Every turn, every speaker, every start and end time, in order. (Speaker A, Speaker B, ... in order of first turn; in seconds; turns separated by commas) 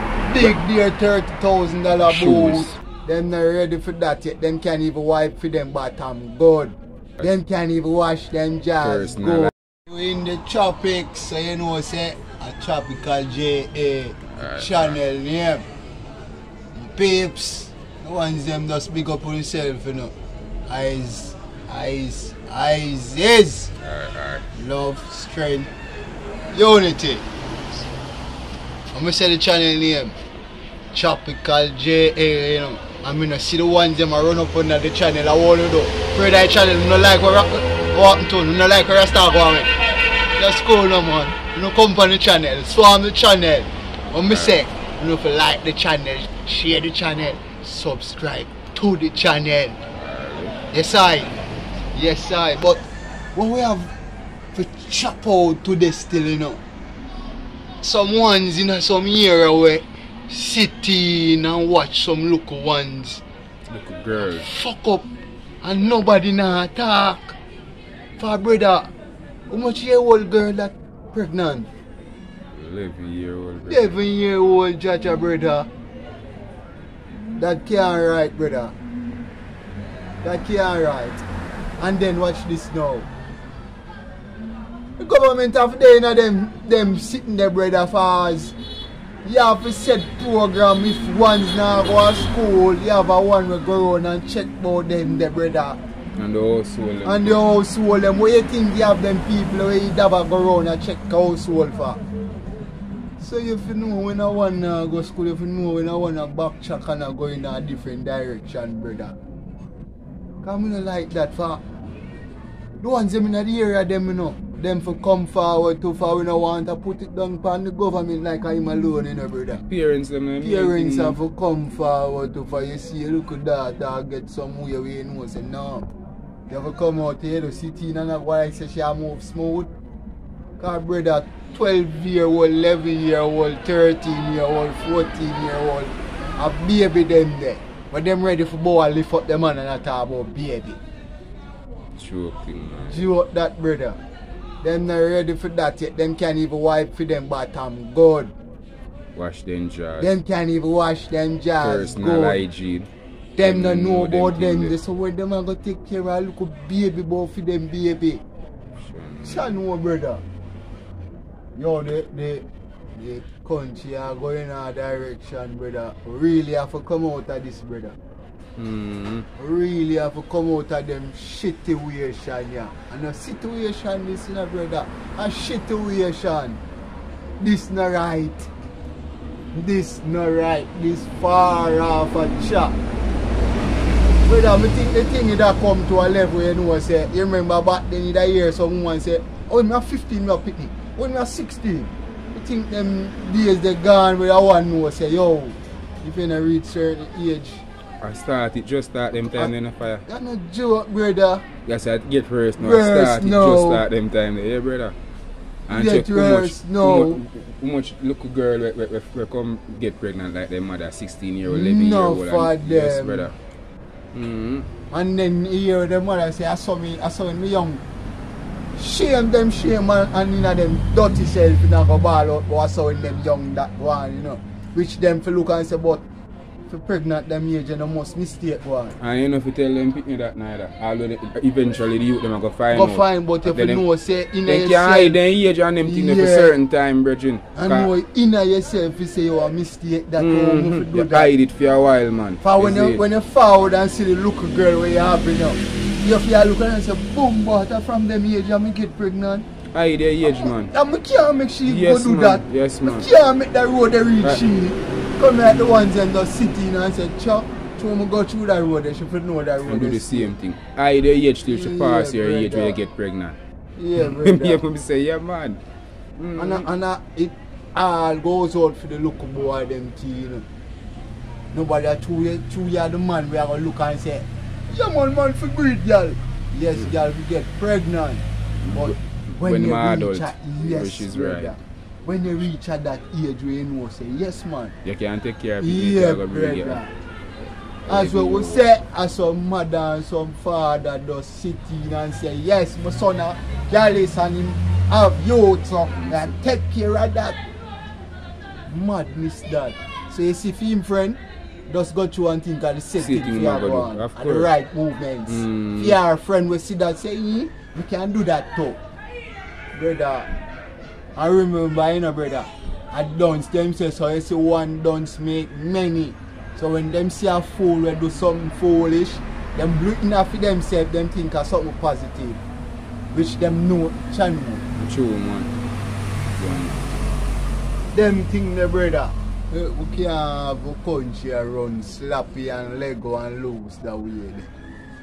Speaker A: 0.2-15.6, Speaker B: 2.0-2.8, Speaker B: 8.8-9.5, Speaker B: 14.3-14.9, Speaker A: 16.7-20.1, Speaker A: 20.7-23.7, Speaker B: 23.8-24.4, Speaker A: 24.6-25.7, Speaker A: 26.5-27.2, Speaker A: 28.9-30.1, Speaker A: 30.9-39.7, Speaker A: 40.4-49.8, Speaker B: 44.3-44.6, Speaker B: 50.0-50.5, Speaker A: 50.7-51.4, Speaker A: 51.9-52.8, Speaker A: 53.3-53.9, Speaker A: 54.5-56.6, Speaker A: 57.8-63.2, Speaker B: 63.7-64.5, Speaker A: 64.2-65.0, Speaker A: 65.6-67.3, Speaker A: 68.2-68.9, Speaker A: 69.5-71.7, Speaker B: 72.5-73.9, Speaker A: 73.6-75.7, Speaker A: 77.3-78.7, Speaker A: 80.2-81.2, Speaker A: 81.8-83.1, Speaker A: 85.0-88.5, Speaker A: 89.2-95.8, Speaker B: 96.2-97.4, Speaker A: 97.0-102.0, Speaker A: 103.2-109.1, Speaker A: 110.4-111.6, Speaker A: 112.8-119.6, Speaker B: 119.7-121.2, Speaker A: 120.4-125.9, Speaker A: 126.5-129.7, Speaker A: 130.6-140.8, Speaker B: 141.9-143.1, Speaker A: 142.8-144.0, Speaker A: 144.6-148.3, Speaker B: 149.1-150.1, Speaker A: 150.0-152.4, Speaker B: 151.6-152.9, Speaker A: 153.3-158.2, Speaker B: 153.4-154.7, Speaker B: 158.8-159.4, Speaker A: 159.2-160.2, Speaker A: 161.6-167.9, Speaker B: 168.6-169.3, Speaker A: 169.4-176.6, Speaker A: 177.4-178.5, Speaker A: 179.5-182.8, Speaker A: 184.2-197.6, Speaker B: 198.0-200.0, Speaker A: 200.1-201.4, Speaker B: 201.6-204.9, Speaker A: 202.6-203.8, Speaker B: 205.7-213.3, Speaker A: 205.7-207.2, Speaker A: 211.4-213.3, Speaker B: 214.1-214.7, Speaker A: 214.9-217.8, Speaker A: 218.7-226.0, Speaker A: 226.7-228.9, Speaker B: 229.0-233.8, Speaker A: 232.7-235.2, Speaker B: 234.4-237.9, Speaker A: 235.8-236.6, Speaker A: 237.5-241.3, Speaker B: 240.2-243.0, Speaker A: 242.4-249.4, Speaker B: 249.7-250.7, Speaker A: 250.2-260.3, Speaker B: 251.6-253.1, Speaker B: 259.6-263.4, Speaker A: 261.5-262.8, Speaker A: 263.8-264.6, Speaker B: 263.9-265.6, Speaker B: 266.2-266.6, Speaker A: 266.4-270.4, Speaker A: 271.5-284.7, Speaker B: 278.6-281.6, Speaker B: 284.8-286.8, Speaker A: 285.6-286.9, Speaker B: 287.8-288.6, Speaker A: 287.9-297.4, Speaker A: 298.7-308.8, Speaker B: 303.0-304.5, Speaker B: 305.3-306.0, Speaker A: 309.7-310.3, Speaker A: 311.1-322.4, Speaker A: 323.1-324.6, Speaker B: 324.8-325.5, Speaker B: 326.4-326.8, Speaker A: 327.9-334.5